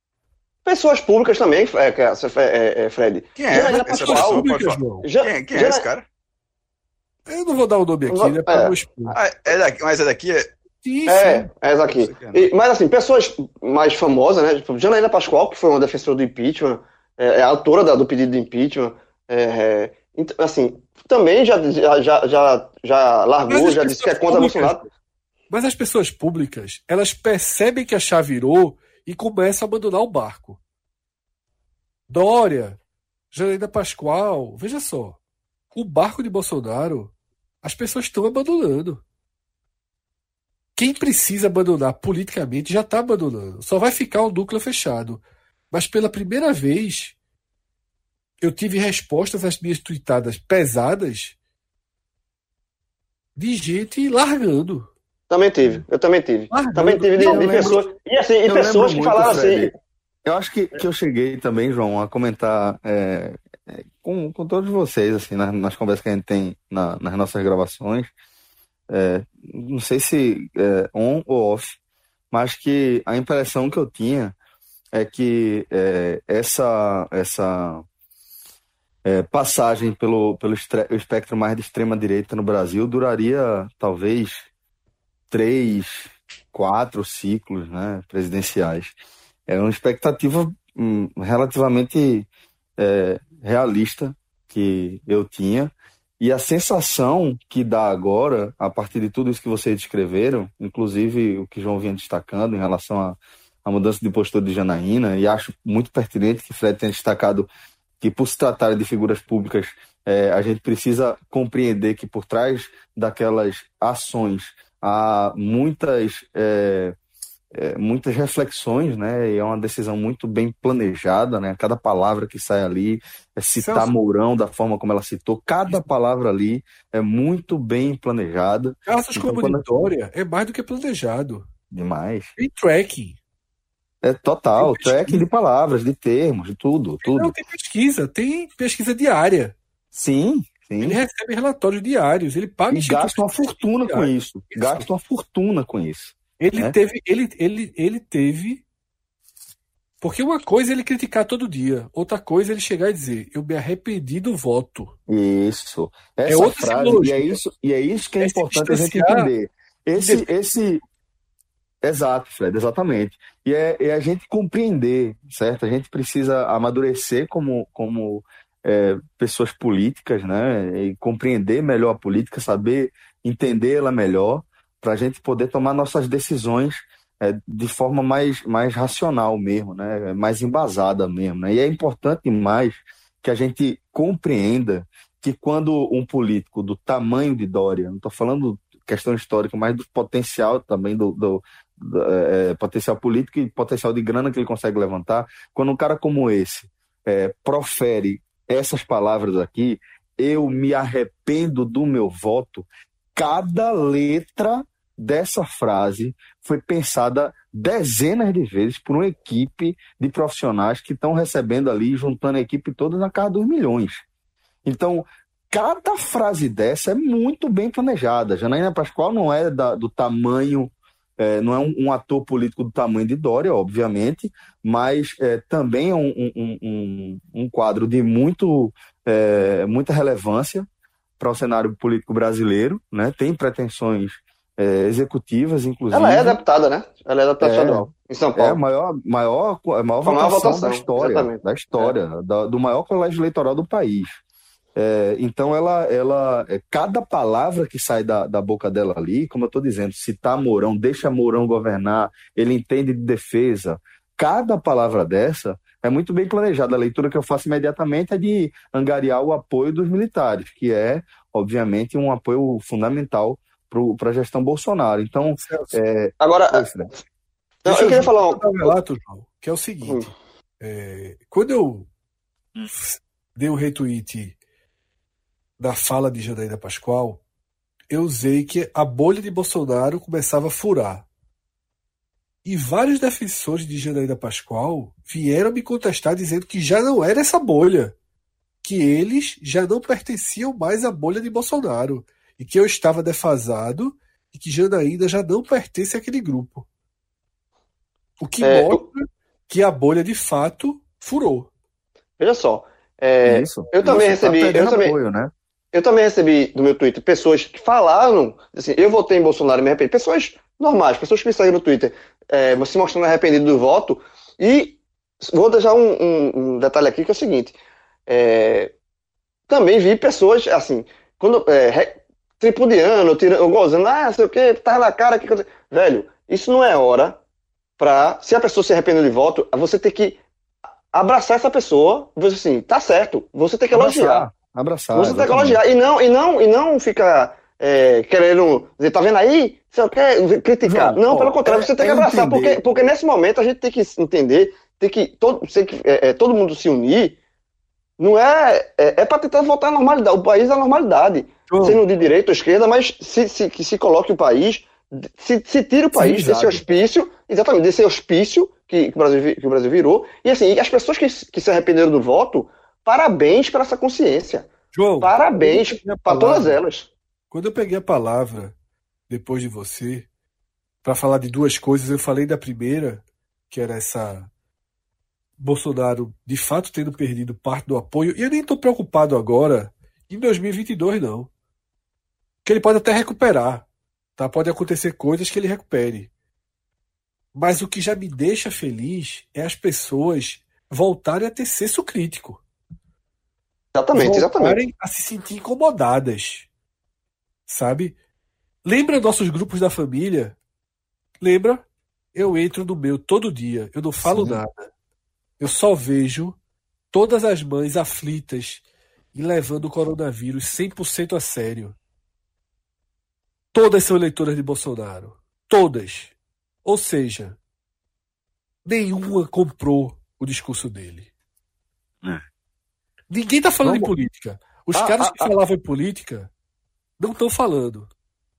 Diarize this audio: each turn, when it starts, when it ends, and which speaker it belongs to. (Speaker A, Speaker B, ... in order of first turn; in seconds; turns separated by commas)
Speaker A: 0.7-5.9, Speaker B: 3.4-6.0, Speaker C: 3.7-5.1, Speaker C: 7.3-9.2, Speaker A: 8.1-8.8, Speaker B: 9.2-10.5, Speaker C: 10.8-11.5, Speaker A: 11.1-24.9, Speaker B: 11.9-12.5, Speaker C: 23.5-24.9, Speaker C: 25.5-30.6, Speaker C: 32.1-32.8, Speaker C: 33.3-35.2, Speaker C: 35.7-39.0, Speaker C: 40.8-47.2, Speaker C: 48.4-51.4, Speaker C: 53.4-54.9, Speaker A: 55.3-59.8, Speaker C: 56.5-57.8, Speaker D: 57.2-57.9, Speaker D: 58.5-59.7, Speaker D: 60.2-68.1, Speaker D: 68.9-71.8, Speaker D: 72.3-74.4, Speaker D: 74.9-77.8, Speaker D: 79.0-84.5, Speaker D: 85.3-89.0, Speaker D: 89.5-107.5, Speaker D: 108.0-117.0, Speaker D: 117.5-129.7, Speaker C: 123.6-123.9, Speaker C: 128.9-131.5, Speaker D: 131.7-132.3, Speaker C: 132.4-133.2, Speaker D: 134.0-137.3, Speaker C: 134.6-135.3, Speaker C: 137.0-139.6, Speaker D: 139.9-141.0, Speaker C: 140.8-144.9, Speaker D: 142.7-146.8, Speaker C: 146.4-148.6, Speaker C: 150.0-154.9, Speaker D: 155.1-160.8, Speaker C: 156.3-157.4, Speaker C: 158.2-159.3, Speaker C: 159.9-160.3, Speaker D: 161.8-214.0, Speaker D: 214.7-230.7, Speaker D: 231.2-236.4, Speaker A: 235.9-238.6, Speaker D: 237.4-244.2, Speaker A: 240.0-241.9, Speaker D: 244.8-266.9, Speaker C: 265.4-265.8, Speaker A: 266.2-266.7, Speaker A: 267.6-268.7, Speaker C: 267.7-271.9, Speaker A: 269.8-270.1, Speaker C: 272.7-274.3, Speaker C: 275.6-277.2, Speaker C: 277.9-281.1, Speaker C: 282.4-287.9, Speaker C: 288.6-296.7, Speaker C: 298.2-301.5, Speaker A: 298.4-298.9, Speaker A: 302.2-304.9, Speaker D: 303.2-305.3, Speaker A: 305.7-317.6, Speaker A: 318.1-318.7, Speaker A: 319.5-327.2, Speaker A: 327.8-330.2, Speaker A: 330.9-334.3, Speaker D: 333.7-335.6, Speaker A: 334.9-347.2, Speaker D: 340.6-342.9, Speaker A: 348.0-364.5, Speaker C: 351.5-351.8, Speaker D: 355.9-356.6, Speaker C: 364.7-365.2, Speaker A: 365.0-366.9, Speaker D: 365.4-366.4, Speaker C: 366.1-366.6, Speaker C: 367.3-368.5, Speaker C: 369.1-370.1, Speaker C: 370.8-374.3, Speaker C: 375.4-381.3, Speaker C: 382.4-383.7, Speaker C: 384.2-386.1, Speaker C: 387.3-392.4, Speaker A: 393.7-394.6, Speaker C: 393.9-396.5, Speaker C: 397.5-398.0, Speaker C: 398.6-400.4, Speaker C: 401.2-404.7, Speaker D: 404.0-404.4, Speaker C: 405.4-406.4, Speaker C: 406.9-408.6, Speaker C: 409.1-411.8, Speaker C: 413.5-416.1, Speaker C: 416.6-417.4, Speaker C: 418.6-421.1, Speaker C: 423.1-426.3, Speaker D: 423.6-423.9, Speaker D: 424.7-425.4, Speaker C: 427.0-427.9